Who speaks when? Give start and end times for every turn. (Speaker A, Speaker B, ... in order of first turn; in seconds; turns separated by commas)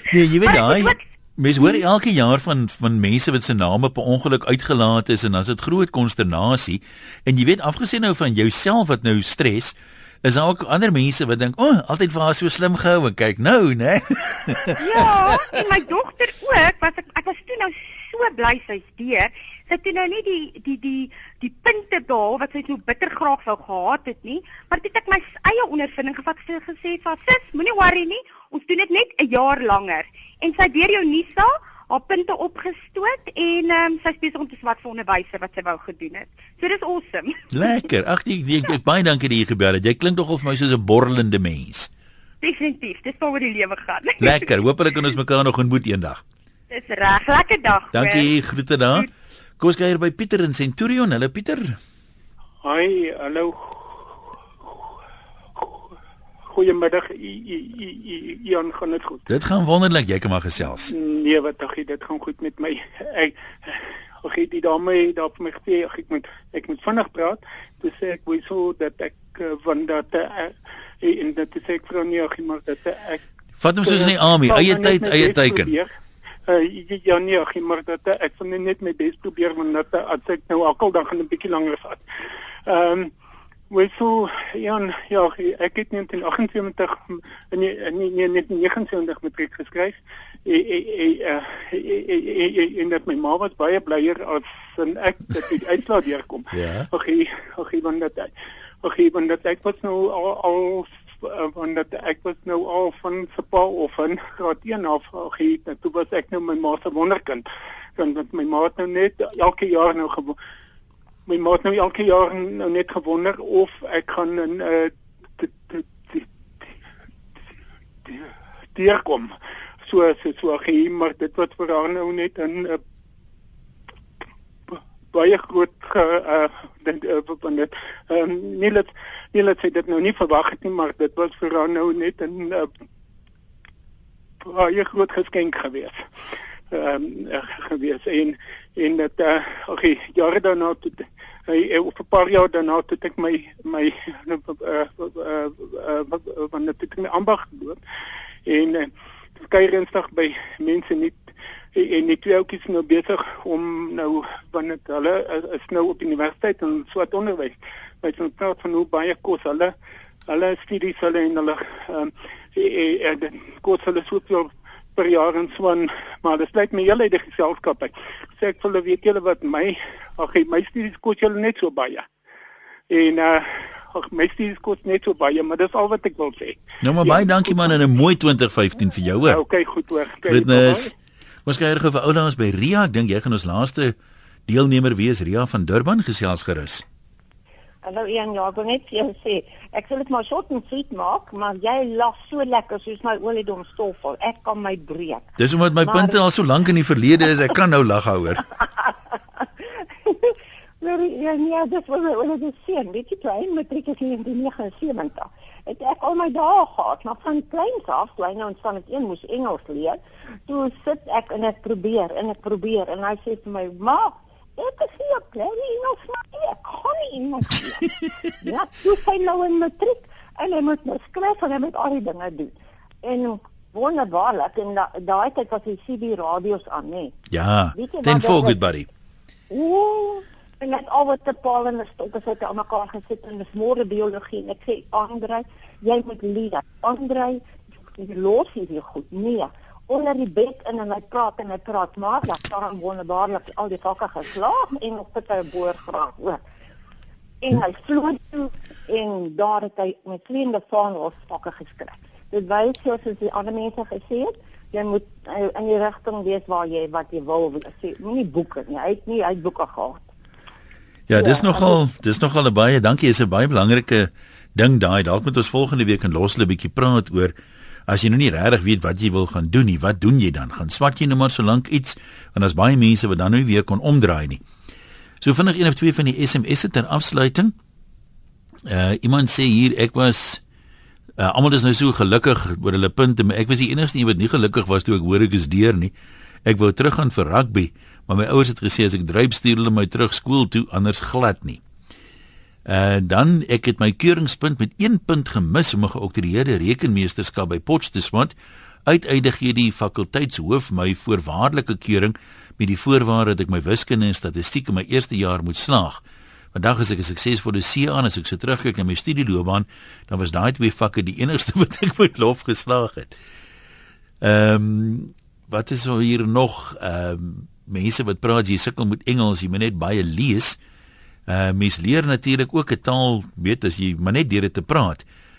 Speaker A: 0.1-14.8, Speaker B: 0.4-1.0, Speaker B: 14.8-37.4, Speaker A: 37.5-41.9, Speaker B: 42.4-44.5, Speaker A: 44.2-46.2, Speaker B: 46.7-48.3, Speaker A: 47.9-49.1, Speaker A: 49.6-51.8, Speaker C: 52.6-53.8, Speaker C: 56.5-59.2, Speaker A: 59.3-60.9, Speaker C: 60.8-73.2, Speaker A: 73.6-75.8, Speaker C: 73.8-75.9, Speaker C: 76.5-82.0, Speaker C: 82.7-83.1, Speaker C: 83.7-98.3, Speaker A: 96.5-96.9, Speaker C: 98.8-107.5, Speaker C: 108.0-110.4, Speaker C: 111.3-116.3, Speaker C: 118.8-122.8, Speaker C: 124.7-132.7, Speaker C: 134.4-136.0, Speaker C: 136.7-147.8, Speaker C: 148.5-159.7, Speaker C: 160.3-172.1, Speaker C: 172.9-177.7, Speaker A: 176.8-179.4, Speaker C: 179.3-180.9, Speaker A: 180.2-180.9, Speaker A: 181.5-184.0, Speaker A: 184.5-186.8, Speaker D: 187.8-196.2, Speaker A: 195.4-198.4, Speaker D: 200.1-227.2, Speaker A: 227.3-228.9, Speaker D: 227.8-228.6, Speaker D: 229.5-237.4, Speaker D: 238.0-246.4, Speaker D: 247.4-260.1, Speaker A: 261.1-267.3, Speaker D: 261.1-261.8, Speaker A: 267.9-274.4, Speaker A: 275.2-277.5, Speaker A: 278.7-280.4, Speaker A: 281.2-285.9, Speaker A: 286.5-291.6, Speaker A: 292.7-306.0, Speaker A: 306.5-313.1, Speaker A: 314.2-320.6, Speaker A: 321.3-325.1